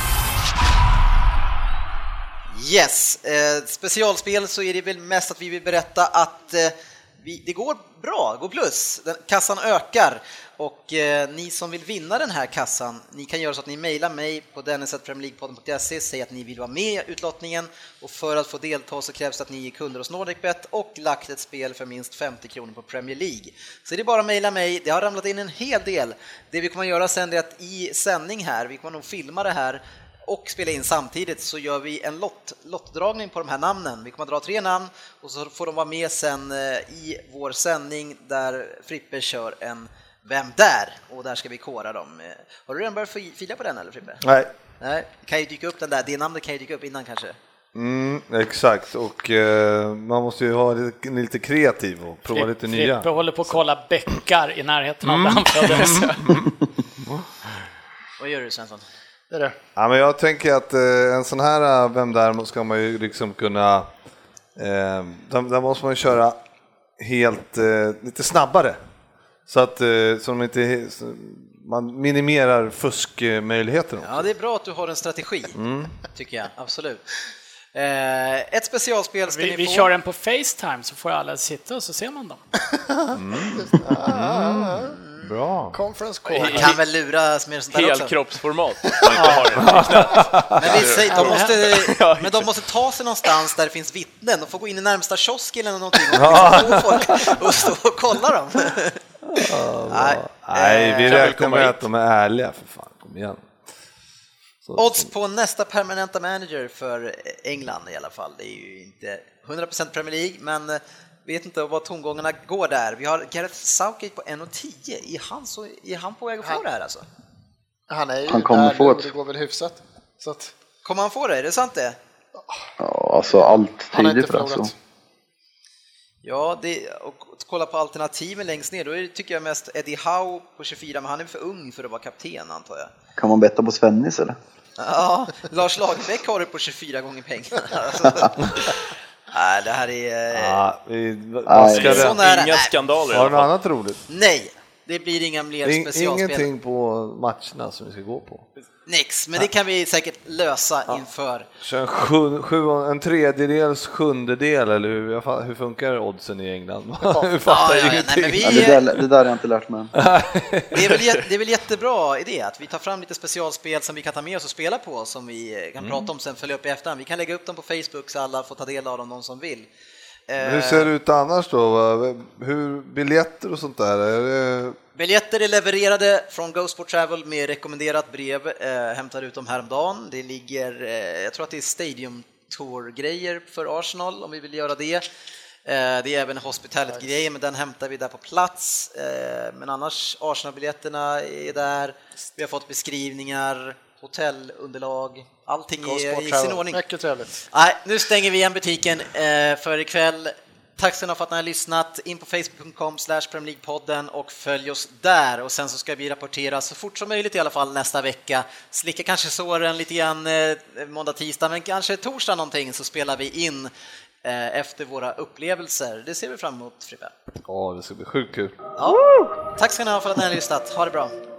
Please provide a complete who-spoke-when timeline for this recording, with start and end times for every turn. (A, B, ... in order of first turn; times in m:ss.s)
0:02.5-0:44.2 A
0:44.2-0:44.5 B
0:44.8-0:47.4 A
0:47.7-0:53.6 B
0:52.3-0:56.2 C
0:55.0-0:57.3 B
0:58.2-0:58.8 A
0:59.3-0:59.6 D
0:59.8-1:03.9 B
1:04.6-1:06.4 B
1:07.0-1:08.8 B
1:09.5-1:14.3 B
1:14.0-1:15.6 A
1:15.5-1:16.0 B
1:16.1-1:17.0 A
1:17.7-1:19.9 A
1:19.3-1:22.4 C
1:23.1-1:25.8 B
1:23.6-1:25.0 D
1:24.8-1:25.3 A
1:25.7-1:26.7 D
1:26.3-1:26.8 E
1:26.4-1:28.1 A
1:27.7-1:32.6 E
1:29.5-1:30.9 B
1:30.5-1:41.5 A
1:31.1-1:31.4 D
1:36.1-1:37.4 B
1:39.3-1:43.5 B
1:41.0-1:41.8 E
1:44.6-1:45.1 B
1:44.8-1:57.0 A
1:57.9-2:00.5 D
1:58.3-1:59.1 F
2:00.8-2:02.0 A
2:02.8-2:04.7 F
2:03.9-2:04.7 D
2:06.2-2:12.9 A
2:13.2-2:14.4 F
2:14.8-2:20.6 A
2:20.3-2:22.2 B
2:21.4-2:22.0 F
2:21.7-2:23.5 E
2:21.8-2:22.7 A
2:23.1-2:24.0 B
2:24.1-2:26.5 A
2:25.6-2:28.5 B
2:28.8-2:31.5 A
2:31.6-2:38.8 B
2:37.4-2:38.8 A
2:38.4-2:39.9 F
2:39.9-2:41.1 B
2:40.7-2:49.7 A
2:45.8-2:46.0 B
2:50.3-2:50.9 A
2:50.4-2:54.8 B
2:55.0-3:05.0 A
3:05.6-3:16.8 A
3:15.8-3:17.4 D
3:17.5-3:33.7 A
3:34.2-3:37.1 A
3:37.4-3:38.6 B
3:38.8-3:41.1 A
3:38.9-3:39.3 F